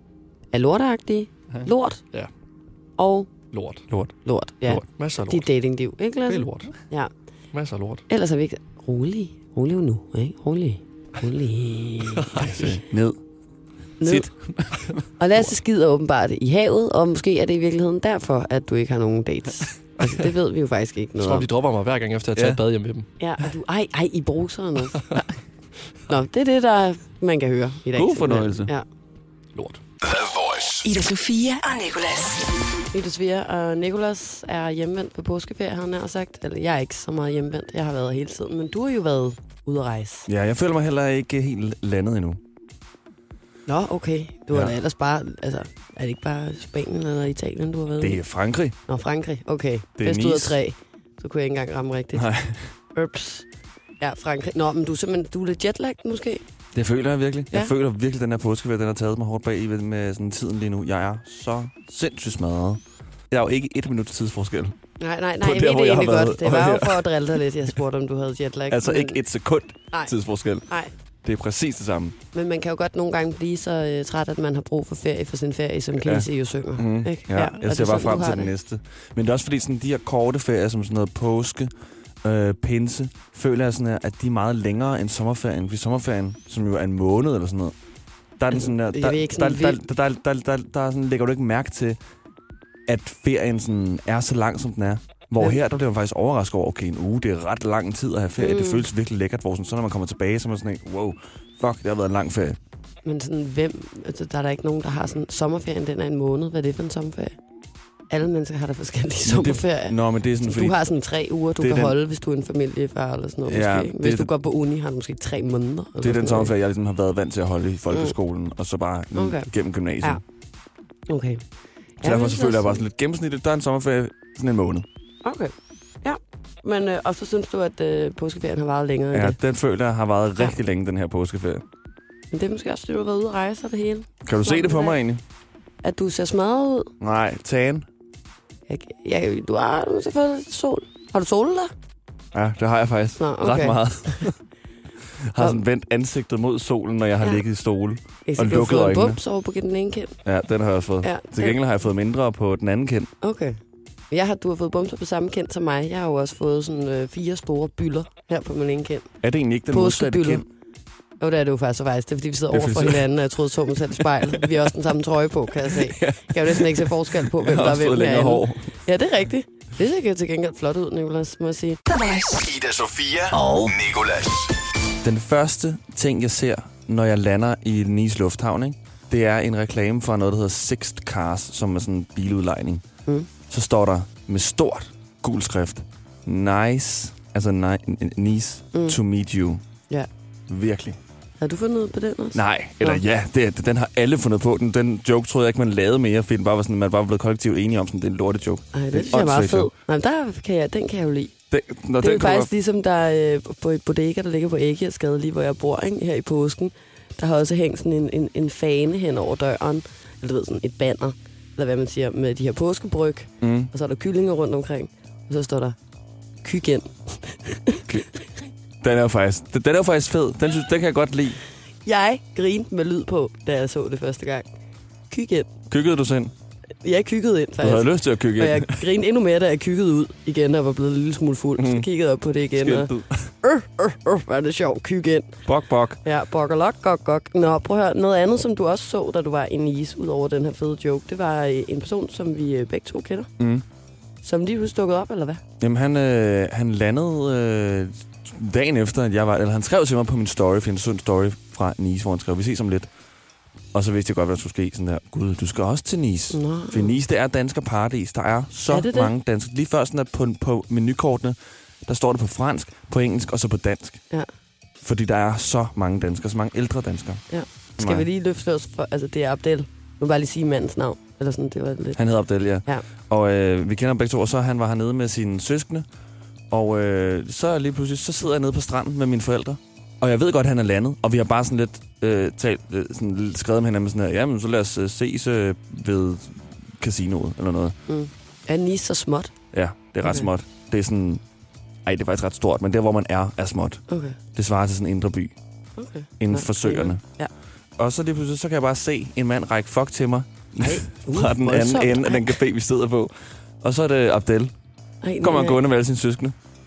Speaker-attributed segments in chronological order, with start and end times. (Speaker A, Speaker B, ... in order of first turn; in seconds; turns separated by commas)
Speaker A: 0.5-2.0, Speaker A: 3.0-3.3, Speaker B: 3.5-4.1, Speaker A: 4.2-7.1, Speaker B: 4.7-5.5, Speaker B: 6.3-6.7, Speaker B: 7.5-8.0, Speaker A: 8.1-12.7, Speaker B: 12.2-12.7, Speaker C: 12.3-13.2, Speaker A: 14.0-14.3, Speaker C: 14.0-15.0, Speaker A: 15.2-21.5, Speaker B: 21.2-23.1, Speaker A: 23.2-25.1, Speaker A: 26.1-28.8, Speaker C: 27.9-28.7, Speaker B: 29.5-29.8, Speaker D: 30.0-30.9, Speaker E: 30.8-32.5, Speaker A: 32.9-40.3, Speaker C: 40.3-42.4, Speaker A: 43.7-48.2, Speaker C: 48.0-48.8, Speaker A: 48.9-52.3, Speaker C: 50.0-50.6, Speaker C: 52.1-52.7, Speaker A: 52.9-53.5, Speaker A: 54.0-56.4, Speaker C: 56.7-64.7, Speaker A: 65.0-69.2, Speaker C: 65.4-67.0, Speaker C: 68.7-70.6, Speaker C: 71.2-72.2, Speaker A: 72.3-78.5, Speaker C: 76.0-81.7, Speaker C: 82.2-87.7, Speaker C: 88.4-92.0, Speaker A: 88.5-89.8, Speaker C: 92.9-102.6, Speaker A: 98.4-98.9, Speaker A: 103.0-107.4, Speaker A: 108.1-116.5, Speaker C: 109.2-110.8, Speaker C: 111.6-112.0, Speaker C: 113.5-114.3, Speaker C: 116.0-120.2, Speaker A: 119.1-119.5, Speaker A: 121.1-121.4, Speaker A: 122.0-122.8, Speaker C: 122.0-124.8, Speaker A: 125.2-129.4, Speaker C: 129.1-131.6, Speaker A: 132.3-135.0, Speaker C: 134.2-135.2, Speaker A: 135.8-136.9, Speaker C: 137.0-137.9, Speaker A: 138.7-141.7, Speaker C: 142.3-144.4, Speaker A: 143.2-144.3, Speaker C: 145.2-149.2, Speaker A: 148.2-150.1, Speaker C: 150.2-153.1, Speaker A: 151.0-151.6, Speaker A: 153.2-153.6, Speaker A: 154.1-159.1, Speaker C: 159.2-160.4, Speaker A: 159.7-160.4, Speaker A: 161.2-171.8, Speaker C: 162.5-163.1, Speaker C: 164.3-164.6, Speaker C: 165.7-168.7, Speaker E: 171.9-172.4, Speaker D: 172.4-174.5, Speaker A: 173.3-173.8, Speaker C: 175.0-182.8, Speaker C: 183.5-189.6, Speaker A: 188.7-189.0, Speaker C: 190.5-191.0, Speaker A: 191.4-193.0, Speaker C: 192.3-199.7, Speaker A: 198.7-201.3, Speaker C: 201.5-202.5, Speaker A: 202.0-215.8, Speaker C: 213.4-213.7, Speaker A: 216.4-218.0, Speaker C: 218.8-221.4, Speaker A: 221.8-224.5, Speaker A: 225.1-225.5, Speaker C: 225.7-226.3, Speaker A: 226.8-232.9, Speaker C: 227.6-228.8, Speaker C: 231.6-231.8, Speaker C: 232.6-233.3, Speaker A: 233.4-235.4, Speaker C: 235.5-236.0, Speaker A: 236.0-243.3, Speaker C: 243.4-243.6, Speaker A: 244.2-245.4, Speaker C: 245.6-252.9, Speaker C: 253.7-264.0, Speaker A: 256.3-257.0, Speaker A: 258.7-259.1, Speaker C: 264.8-267.2, Speaker A: 267.3-272.0, Speaker C: 267.8-268.1, Speaker C: 271.9-275.8, Speaker C: 276.5-287.8, Speaker A: 287.9-289.3, Speaker C: 289.5-291.2, Speaker C: 291.8-295.4, Speaker A: 293.9-294.2, Speaker A: 295.8-297.3, Speaker C: 296.2-297.0, Speaker C: 297.8-304.5, Speaker A: 300.6-302.3, Speaker A: 305.0-305.6, Speaker C: 305.2-306.3